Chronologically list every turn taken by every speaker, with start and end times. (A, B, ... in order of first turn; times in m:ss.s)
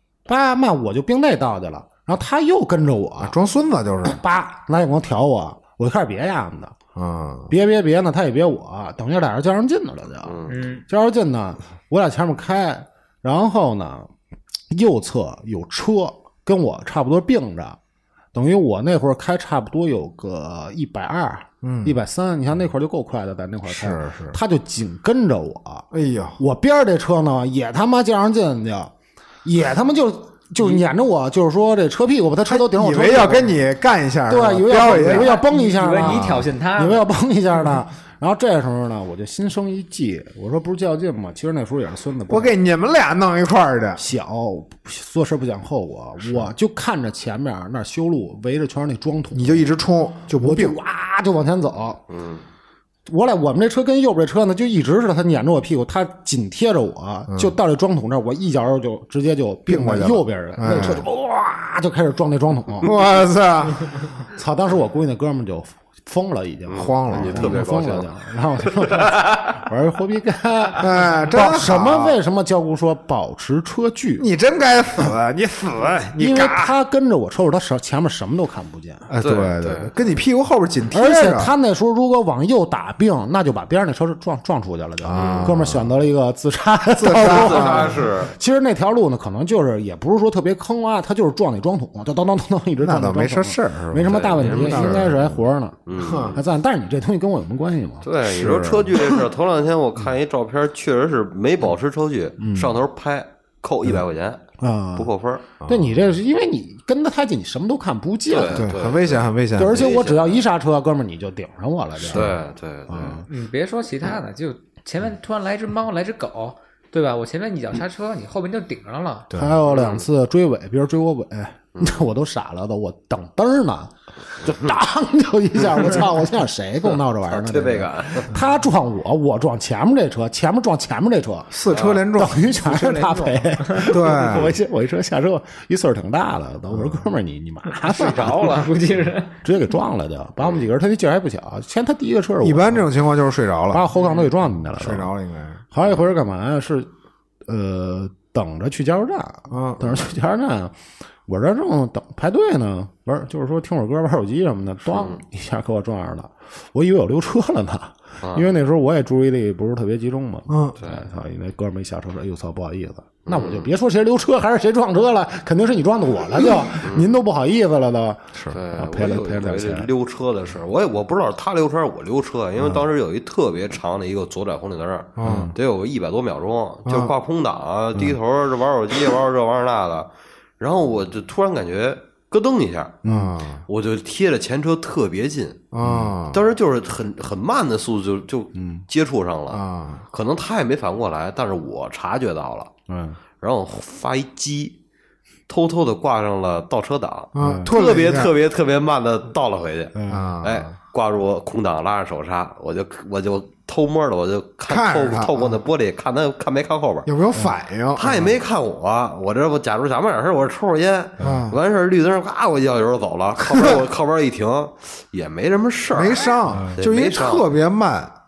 0:00.2-0:03.3 A
0:03.2-0:04.2 B
0:04.0-0:06.8 A
0:06.9-0:07.5 B
0:07.5-0:14.1 A
0:10.2-0:10.5 C
0:10.5-0:10.8 D
0:14.7-0:17.8 A
0:18.3-0:25.9 A
0:21.6-0:22.0 B
0:23.6-0:24.4 B
0:25.9-0:26.4 B
0:26.4-0:28.9 A
0:29.4-0:33.6 A
0:32.4-0:35.4 B
0:34.3-0:42.5 A
0:34.8-0:37.1 D
0:36.0-0:36.4 B
0:42.3-0:44.0 B
0:44.0-0:49.7 A
0:49.3-0:50.8 B
0:50.3-0:52.0 A
0:52.1-0:52.4 C
0:53.1-1:02.9 A
0:57.3-0:57.5 B
0:59.7-1:01.1 B
1:02.8-1:04.0 B
1:04.4-1:14.3 A
1:06.7-1:08.1 C
1:06.7-1:07.6 B
1:08.8-1:09.2 C
1:10.8-1:12.2 B
1:14.2-1:16.7 B
1:16.2-1:19.1 A
1:19.1-1:21.5 B
1:19.2-1:19.9 C
1:20.9-1:38.0 A
1:25.0-1:25.9 B
1:25.1-1:25.6 C
1:27.0-1:28.1 B
1:27.2-1:28.3 C
1:32.8-1:35.4 B
1:34.0-1:35.1 C
1:35.9-1:36.4 C
1:36.0-1:36.4 B
1:38.0-1:45.4 C
1:38.2-1:39.1 B
1:42.4-1:42.8 A
1:44.6-1:45.1 A
1:45.6-1:45.9 B
1:45.6-1:48.7 A
1:48.3-1:50.4 C
1:48.5-1:49.9 B
1:49.5-1:53.2 A
1:52.0-1:53.2 C
1:52.1-1:52.3 B
1:53.3-1:59.3 D
1:59.3-1:59.6 B
1:59.3-2:18.7 A
1:59.7-2:00.0 C
2:01.7-2:02.0 C
2:07.3-2:08.4 C
2:11.5-2:12.4 B
2:11.7-2:12.1 C
2:12.5-2:13.9 D
2:13.9-2:14.6 B
2:16.7-2:17.1 B
2:17.7-2:19.4 D
2:19.4-2:22.9 A
2:22.4-2:23.9 B
2:23.7-2:25.1 A
2:24.7-2:25.6 B
2:25.7-2:26.9 A
2:27.4-2:30.7 A
2:29.5-2:30.1 B
2:31.2-2:49.9 A
2:34.9-2:35.2 C
2:38.2-2:38.5 C
2:40.5-2:40.8 B
2:43.3-2:43.7 C
2:46.8-2:47.1 C
2:48.5-3:03.0 C
2:55.2-2:55.5 B
2:55.2-2:55.5 A
2:56.8-2:57.1 B
3:03.0-3:03.4 A
3:03.1-3:03.6 B
3:03.7-3:05.7 C
3:05.7-3:06.4 B
3:05.8-3:06.1 A
3:06.3-3:12.7 C
3:08.6-3:08.8 A
3:09.5-3:10.0 B
3:12.9-3:13.2 A
3:13.4-3:14.8 C
3:15.5-3:27.1 C
3:17.3-3:18.3 B
3:17.4-3:17.7 A
3:19.9-3:20.3 A
3:20.1-3:20.7 B
3:24.7-3:25.6 B
3:27.0-3:28.2 B
3:27.9-3:37.4 C
3:31.2-3:31.6 B
3:35.9-3:38.1 B